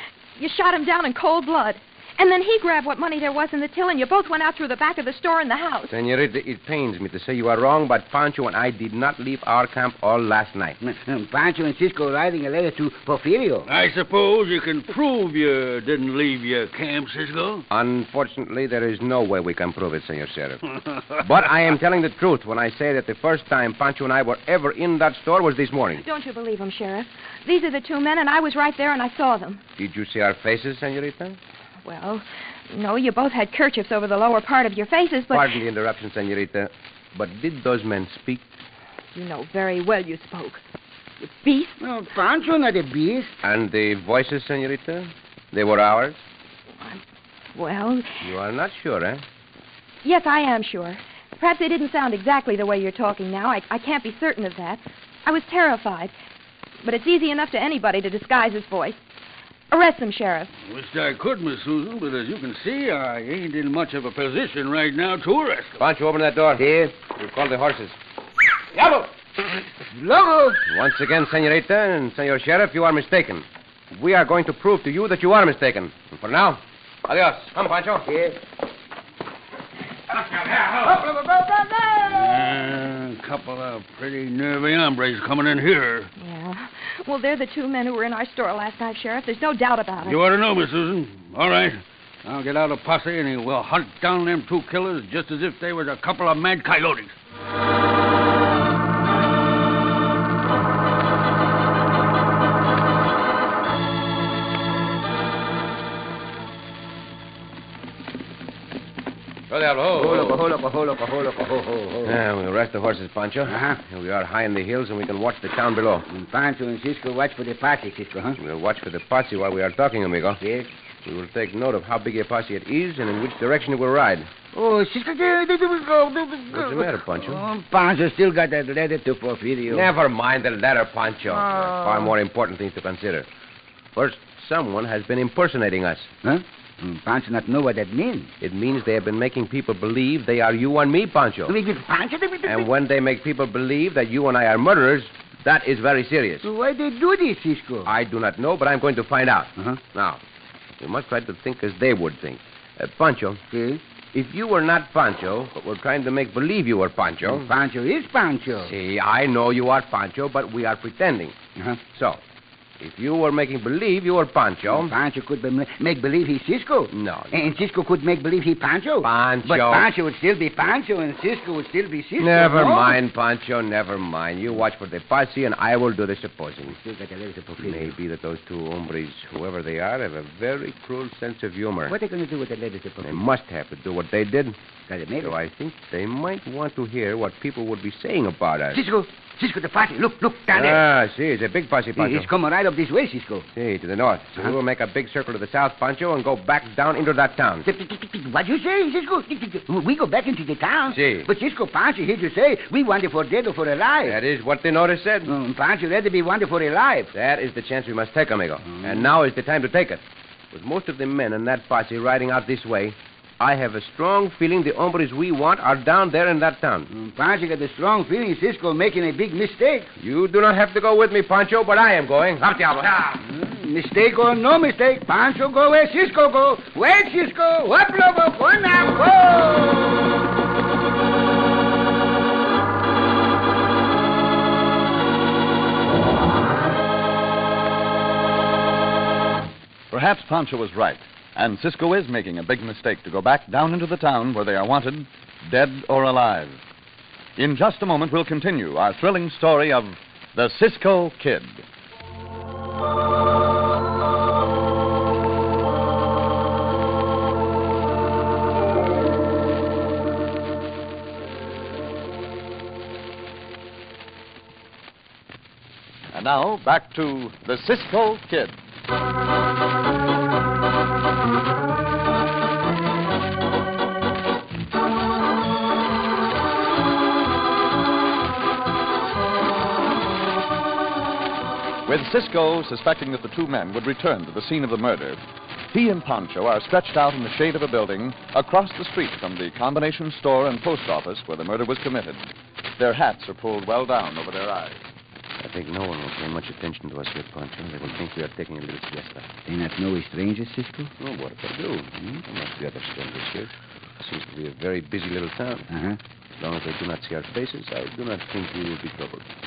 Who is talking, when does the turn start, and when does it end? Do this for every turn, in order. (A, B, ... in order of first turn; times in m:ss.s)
0:00.4-0:05.9 A
0:05.9-0:10.8 B
0:10.8-0:13.7 C
0:13.7-0:17.6 D
0:17.7-0:20.6 B
0:21.2-0:26.0 B
0:26.0-0:29.6 A
0:29.8-0:31.4 B
0:31.8-0:35.5 A
0:35.3-0:38.5 B
0:39.1-0:40.6 A
0:41.2-0:41.8 A
0:41.8-0:43.3 C
0:43.4-0:46.2 B
0:47.5-0:48.2 A
0:48.2-0:49.2 B
0:50.0-0:56.1 A
0:56.8-0:59.0 A
0:59.7-1:00.5 A
1:00.6-1:05.8 D
1:05.8-1:08.0 B
1:06.6-1:07.0 C
1:08.8-1:09.0 B
1:09.9-1:10.6 C
1:10.7-1:18.1 B
1:18.1-1:18.4 C
1:20.3-1:22.6 C
1:22.1-1:26.1 D
1:26.2-1:30.2 A
1:30.0-1:37.1 D
1:49.5-1:50.4 B
1:49.9-1:52.2 C
1:52.0-1:56.1 B
1:53.4-1:53.8 C
1:56.1-1:58.4 C
1:58.4-2:00.4 B
2:00.4-2:00.7 C
2:01.0-2:04.3 B
2:04.5-2:09.9 C
2:06.5-2:07.4 B
2:09.7-2:13.3 B
2:11.4-2:12.1 C
2:13.9-2:16.1 B
2:16.2-2:18.3 C
2:18.4-2:21.5 B
2:21.5-2:22.7 C
2:22.4-2:26.5 B
2:26.4-2:27.9 C
2:27.8-2:30.2 B
2:30.8-2:33.4 B
2:33.5-2:33.8 C
2:34.1-2:37.5 B
2:37.2-2:38.7 C
2:38.5-2:41.3 B
2:41.9-2:42.2 B
2:42.8-2:44.9 B
2:44.7-2:53.0 C
2:46.9-2:47.3 B
2:49.0-2:49.9 B
2:52.2-2:56.8 B
2:56.6-2:57.9 C
2:57.6-3:02.0 B
3:01.9-3:03.3 C
3:03.0-3:04.6 B
3:04.9-3:05.4 C
3:05.2-3:08.8 B
3:08.7-3:10.8 C
3:10.5-3:12.3 B
3:12.0-3:13.4 C
3:13.5-3:17.7 B
3:17.6-3:24.2 C
3:20.9-3:21.3 B
3:24.0-3:25.3 B
3:25.2-3:27.1 C
3:27.1-3:36.9 B
3:36.9-3:39.9 C
3:40.0-3:43.2 B
3:43.2-3:50.1 C
3:59.9-4:06.6 E
4:07.4-4:11.6 E
4:26.1-4:28.6 E
4:41.8-4:45.2 E
4:45.7-4:54.8 E
4:55.4-4:59.3 B
4:59.4-5:00.9 C
5:01.0-5:05.6 B
5:05.7-5:06.0 C
5:06.4-5:09.2 B